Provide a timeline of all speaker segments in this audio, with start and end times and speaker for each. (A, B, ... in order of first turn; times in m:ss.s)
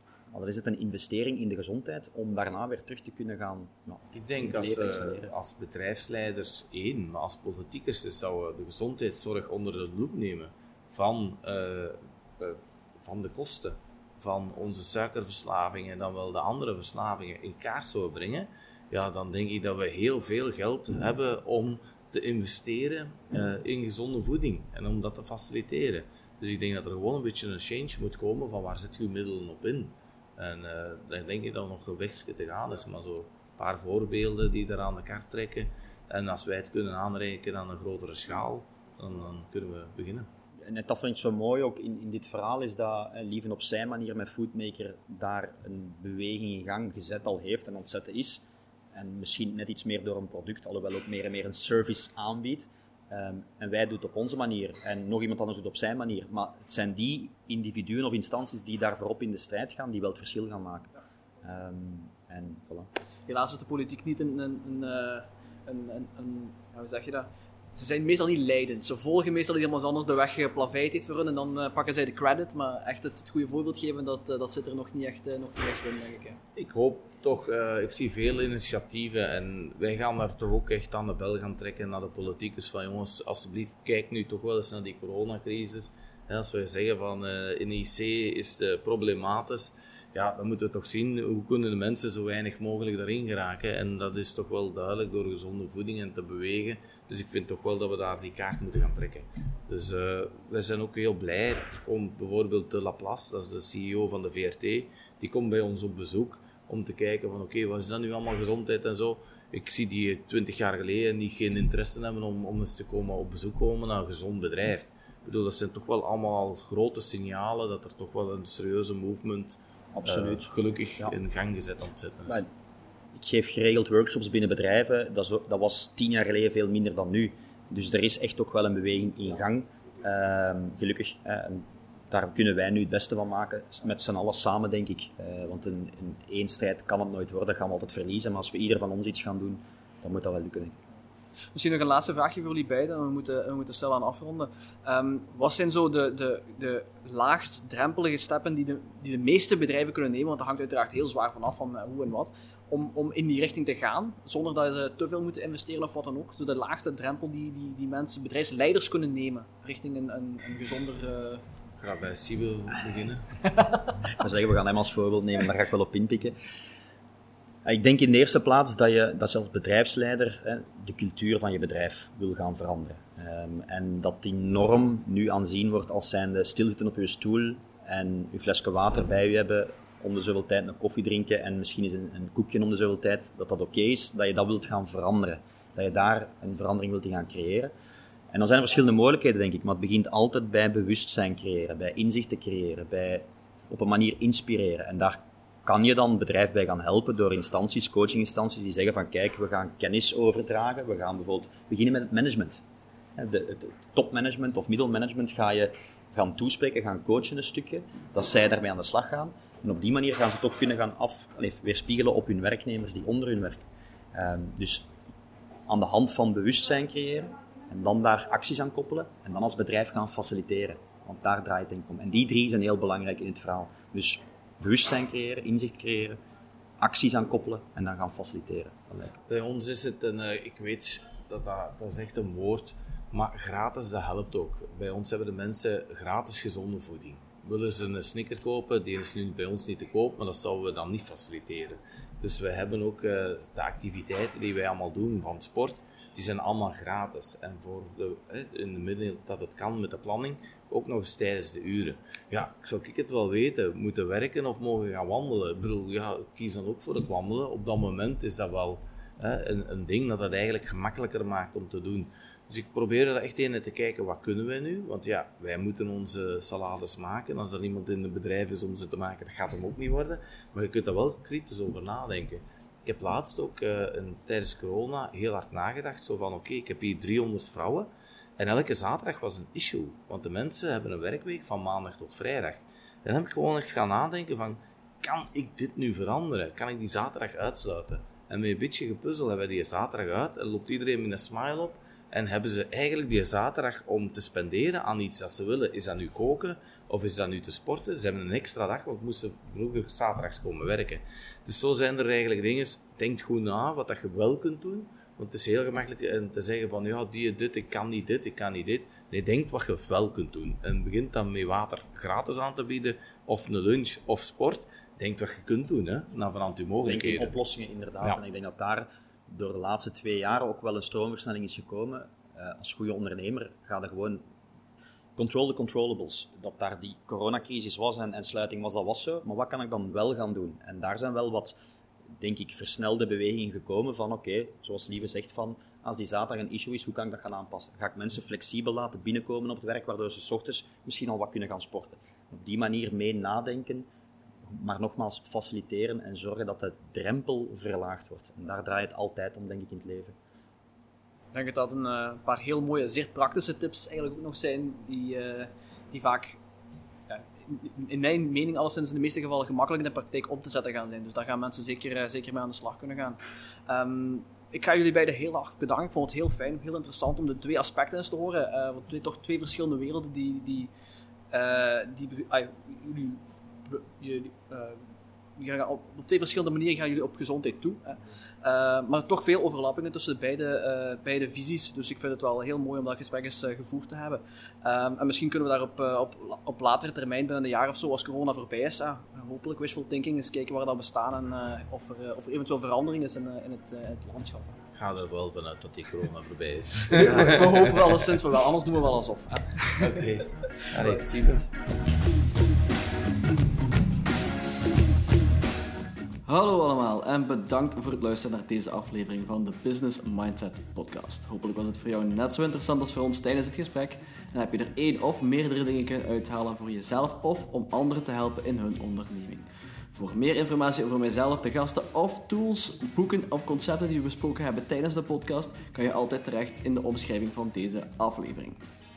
0:00.3-0:05.3 A
0:04.1-0:40.3 B
0:40.6-1:00.9 A
1:01.4-1:02.9 A
1:03.3-1:16.4 C
1:16.5-2:02.4 B
1:59.9-2:00.5 A
2:03.1-2:20.8 A
2:21.5-2:41.4 C
2:41.8-2:43.2 B
2:43.5-2:43.8 C
2:44.1-2:46.3 A
2:47.6-3:07.7 A
3:08.3-3:22.6 A
3:23.2-3:34.9 A
3:35.7-3:46.2 A
3:46.8-3:49.2 A
3:49.3-5:17.4 B
5:16.8-5:24.2 A
5:25.2-5:31.6 A
5:32.2-5:43.9 A
5:44.4-5:50.1 A
5:51.3-5:56.4 C
5:57.1-6:10.7 C
6:11.3-6:14.8 C
6:15.4-6:34.6 C
6:34.7-6:38.0 B
6:36.9-6:40.0 C
6:39.8-6:41.5 B
6:46.3-7:08.6 D